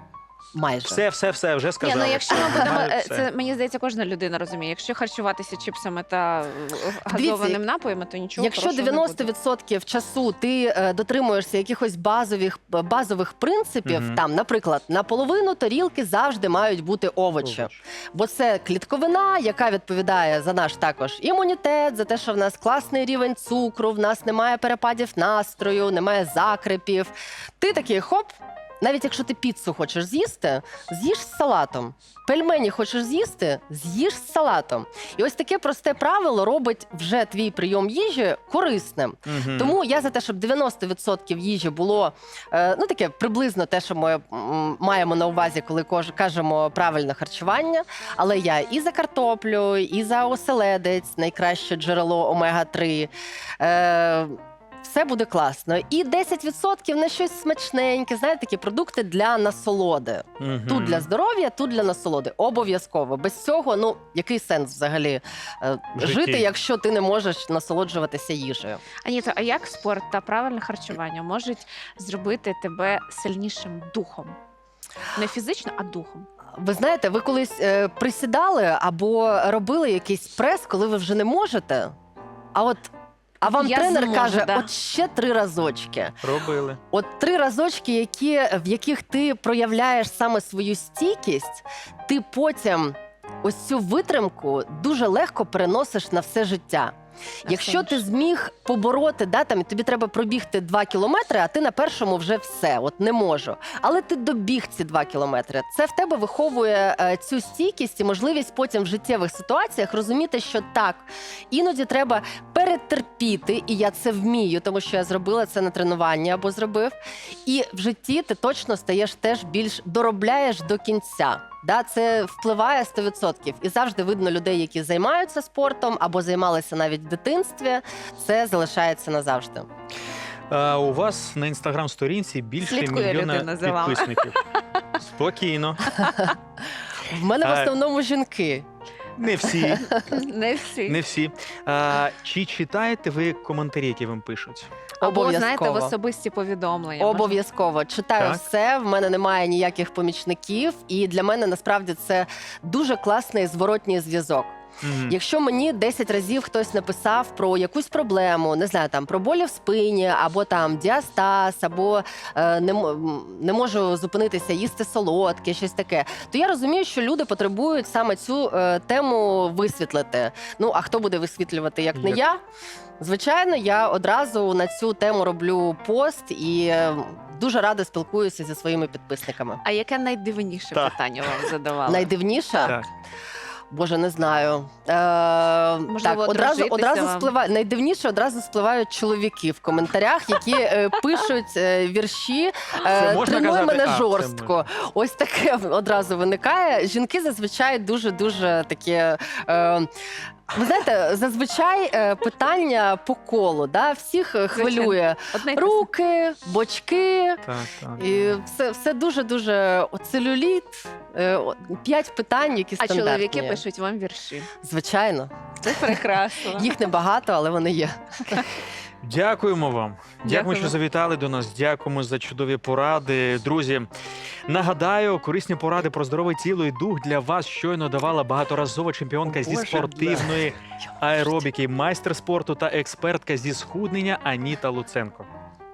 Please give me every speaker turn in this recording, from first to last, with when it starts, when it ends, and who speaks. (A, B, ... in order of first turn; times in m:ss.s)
0:00.5-0:01.0 A
0:00.8-0:03.3 B
0:01.8-0:09.3 C
0:02.4-0:02.8 A
0:07.1-0:07.6 A
0:08.4-0:28.3 A
0:13.8-0:14.2 B
0:17.4-0:17.8 B
0:28.8-1:08.8 A
0:39.3-0:39.8 B
1:00.4-1:01.1 B
1:06.0-1:06.4 B
1:09.0-1:14.4 C
1:15.1-1:16.3 C
1:16.6-1:21.9 A
1:22.5-1:22.9 A
1:23.4-1:26.2 A
1:23.4-1:24.7 C
1:26.2-1:26.8 B
1:26.9-1:36.9 A
1:37.5-1:38.0 C
1:37.5-1:57.0 A
1:57.5-2:09.7 A
2:10.5-2:14.4 B
2:12.6-2:14.4 C
2:15.0-2:16.2 B
2:17.1-2:18.6 A
2:17.4-2:17.7 B
2:19.2-2:20.0 B
2:19.5-2:20.0 A
2:20.0-2:21.0 C
2:20.9-2:24.7 B
2:25.0-2:27.4 C
2:25.0-2:25.9 A
2:27.0-2:34.6 A
2:34.8-2:35.2 B
2:35.1-2:52.4 A
2:52.0-2:52.2 B
2:53.0-2:59.6 A
2:59.6-3:02.1 C
3:01.9-3:02.8 A
3:03.7-3:19.9 A
3:05.9-3:07.3 C
3:12.8-3:14.6 B
3:20.5-3:27.4 A
3:24.5-3:25.9 C
3:27.5-3:28.2 B
3:28.0-3:33.6 A
3:32.8-3:34.5 C
3:34.6-3:35.3 A
3:35.6-3:36.7 C
3:36.5-3:38.4 A
3:39.0-3:43.9 B
3:40.2-3:40.8 C
3:44.5-3:55.3 B
3:49.2-3:50.5 A